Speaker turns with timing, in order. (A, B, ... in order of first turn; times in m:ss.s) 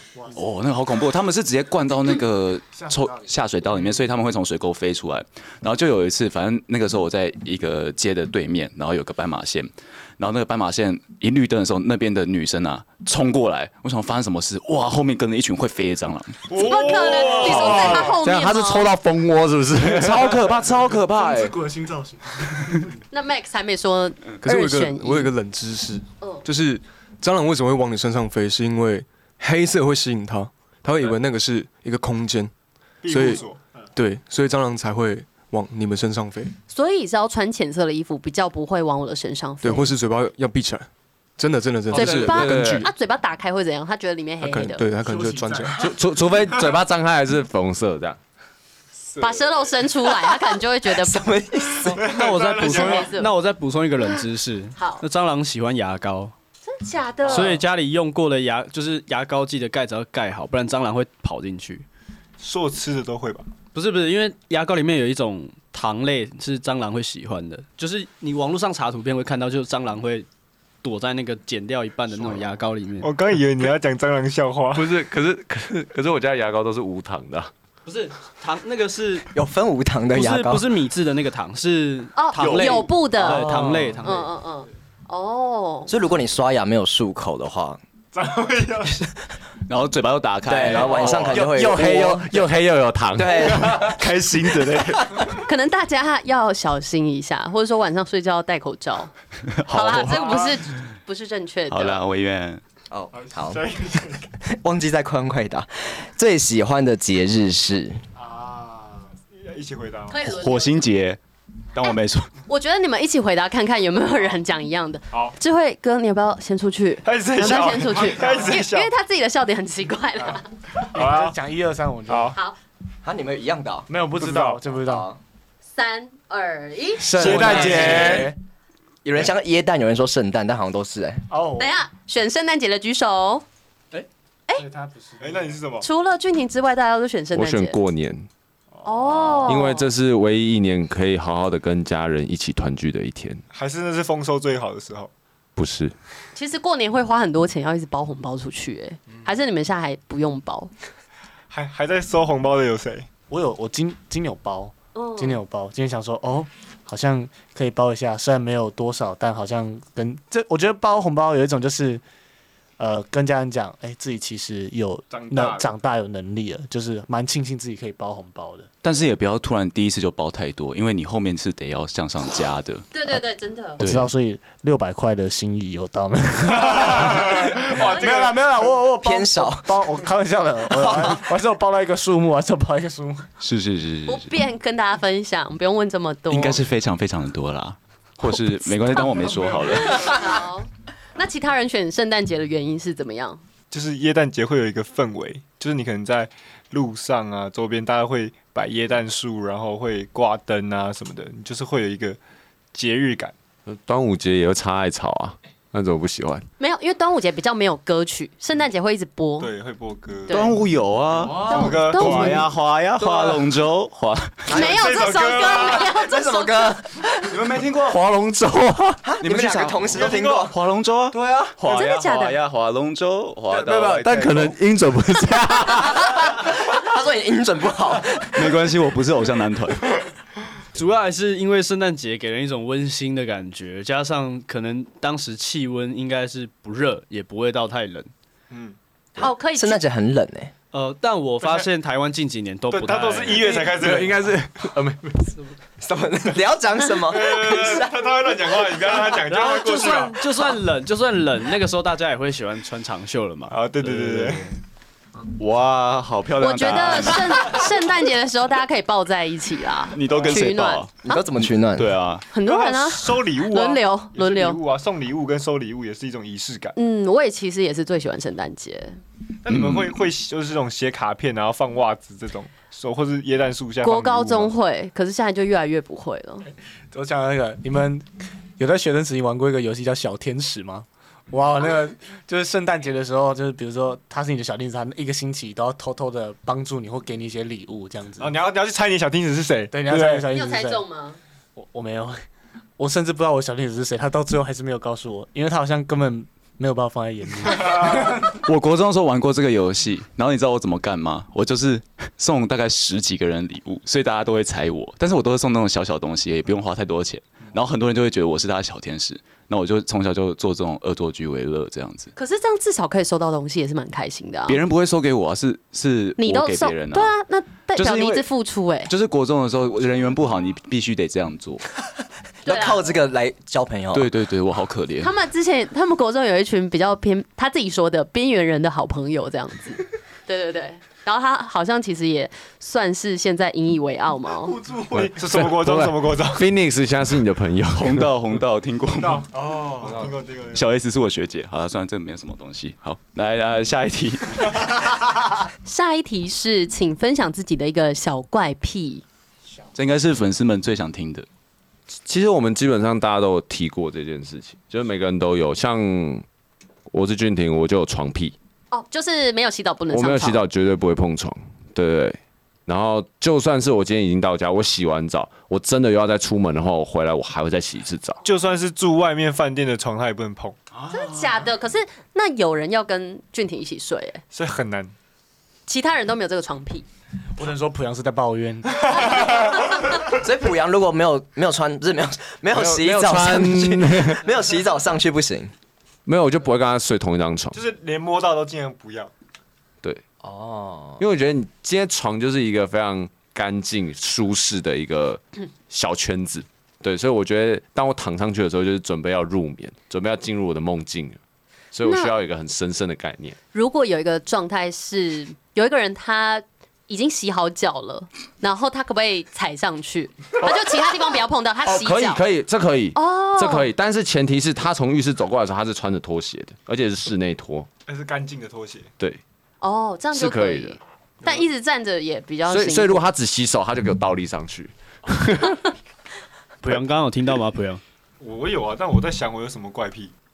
0:00.3-0:16.5 A
0:16.5-0:18.1 B
0:16.5-0:18.9 C
0:16.8-0:21.5 D
0:19.9-0:20.8 A
0:20.4-0:22.9 E
0:23.1-0:25.3 C
0:24.4-0:32.5 F
0:33.0-0:33.6 B
0:33.1-0:36.5 F
0:36.7-0:39.9 C
0:39.6-0:42.9 F
0:41.9-0:42.9 D
0:41.9-0:44.8 C
0:44.4-0:45.9 F
0:45.0-0:45.8 E
0:45.8-0:48.2 D
0:49.2-0:51.2 C
0:50.1-0:52.1 G
0:51.9-0:56.3 H
0:51.9-0:53.1 B
0:52.5-0:53.3 C
0:54.8-0:55.0 C
0:56.6-0:57.6 C
0:57.2-1:01.8 H
1:02.4-1:03.5 B
1:03.7-1:10.3 H
1:10.8-1:13.1 H
1:13.0-1:14.9 B
1:14.7-1:17.5 D
1:17.8-1:19.3 H
1:19.3-1:20.7 G
1:20.1-1:24.3 H
1:22.1-1:23.5 C
1:22.4-1:22.8 A
1:23.3-1:24.0 E
1:24.0-1:25.9 C
1:25.9-1:27.8 G
1:28.1-1:29.0 B
1:29.7-1:31.5 A
1:30.5-1:32.5 G
1:31.0-1:34.0 D
1:33.2-1:33.9 G
1:33.8-1:34.8 A
1:35.3-1:39.1 C
1:39.6-1:40.6 A
1:39.7-1:42.0 C
1:41.7-1:42.6 A
1:42.9-1:43.7 G
1:43.4-1:44.2 B
1:44.4-1:48.0 G
1:48.2-1:49.1 E
1:49.3-1:50.2 B
1:50.1-1:50.8 C
1:50.2-1:51.2 A
1:51.7-1:52.3 A
1:52.5-2:00.5 C
1:57.0-1:58.9 B
2:00.9-2:01.4 B
2:00.9-2:02.4 E
2:02.1-2:02.4 B
2:03.0-2:03.9 G
2:03.9-2:05.1 E
2:04.2-2:04.6 B
2:04.8-2:05.2 G
2:05.7-2:07.9 C
2:07.0-2:08.4 E
2:07.1-2:08.3 B
2:07.3-2:08.3 G
2:09.0-2:11.2 G
2:11.3-2:11.7 E
2:11.6-2:13.4 C
2:14.5-2:15.6 E
2:15.2-2:15.9 B
2:15.8-2:17.8 C
2:17.3-2:18.3 D
2:18.8-2:19.8 C
2:19.4-2:23.4 D
2:23.5-2:25.1 B
2:25.6-2:25.9 D
2:26.3-2:30.7 C
2:31.5-2:33.1 B
2:33.3-2:42.0 E
2:34.9-2:35.4 C
2:42.8-2:48.7 E
2:45.1-2:45.7 B
2:48.8-2:52.9 A
2:52.9-2:53.8 C
2:53.8-2:54.1 A
2:53.8-3:03.3 E
2:56.6-2:58.6 B
2:57.7-2:58.1 C
2:58.9-2:59.8 G
3:03.4-3:04.3 A
3:04.1-3:06.6 C
3:06.3-3:10.1 A
3:08.3-3:13.4 C
3:13.7-3:22.2 B
3:22.7-3:23.3 B
3:23.7-3:26.4 D
3:26.6-3:29.5 C
3:29.4-3:30.5 B
3:30.3-3:30.5 C
3:30.3-3:34.5 A
3:31.4-3:32.4 C
3:31.5-3:32.5 B
3:33.0-3:33.4 G
3:34.5-3:37.3 G
3:34.5-3:35.9 B
3:34.5-3:36.7 C
3:37.3-3:38.0 A
3:37.8-3:39.0 D
3:39.0-3:40.5 G
3:39.2-3:44.5 A
3:39.9-3:40.5 B
3:41.1-3:41.5 G
3:41.6-3:42.4 C
3:43.6-3:46.0 D
3:46.0-3:48.5 G
3:48.3-3:50.0 A
3:50.7-3:58.1 H
3:58.5-3:58.8 B
3:59.2-3:59.8 C
3:59.2-4:00.5 G
4:00.7-4:03.6 H
4:01.4-4:01.7 B
4:02.7-4:04.3 B
4:03.4-4:05.3 D
4:05.8-4:08.7 G
4:07.1-4:10.6 B
4:09.1-4:14.6 H
4:13.5-4:14.5 B
4:15.4-4:17.7 A
4:16.4-4:21.2 C
4:19.9-4:22.2 A
4:20.1-4:20.4 B
4:21.0-4:22.0 G
4:22.3-4:24.6 C
4:22.4-4:26.7 B
4:26.8-4:29.0 C
4:29.4-4:34.5 B
4:29.5-4:30.0 A
4:33.8-4:36.4 C
4:36.9-4:38.1 E
4:38.6-4:48.3 E
4:48.2-4:50.3 B
4:49.7-4:50.8 E
4:50.3-4:51.2 C
4:51.6-4:52.2 E
4:52.8-4:58.3 E
4:58.0-5:12.1 A
5:12.2-5:14.6 C
5:14.5-5:17.1 A
5:16.2-5:18.9 C
5:17.8-5:18.3 A
5:18.9-5:21.7 A
5:22.4-5:22.8 C
5:22.4-5:24.1 G
5:23.9-5:25.1 A
5:25.0-5:34.6 C
5:34.6-5:34.9 E
5:34.9-5:36.5 B
5:34.9-5:38.1 D
5:37.7-5:39.3 A
5:39.0-5:40.7 B
5:39.4-5:40.0 E
5:40.5-5:44.9 A
5:45.6-5:49.0 C
5:49.7-5:51.2 A
5:52.0-5:56.2 D
5:56.9-5:58.4 D
5:58.7-6:00.4 C
5:59.9-6:08.2 D
6:08.2-6:10.6 B
6:10.9-6:11.2 A
6:10.9-6:14.2 C
6:14.3-6:14.9 B
6:15.7-6:16.8 C
6:17.3-6:19.5 E
6:19.9-6:25.5 G
6:22.5-6:24.2 D
6:26.0-6:27.6 D
6:27.5-6:29.1 B
6:30.2-6:31.0 G
6:31.0-6:41.2 D
6:41.7-6:43.4 D
6:41.8-6:42.1 C
6:43.5-6:52.2 C
6:51.6-6:57.7 D
6:52.9-6:53.7 C
6:57.8-6:58.9 B
6:59.6-7:03.0 C
7:00.1-7:00.8 D
7:02.5-7:05.6 D
7:06.6-7:07.8 H
7:08.2-7:10.1 B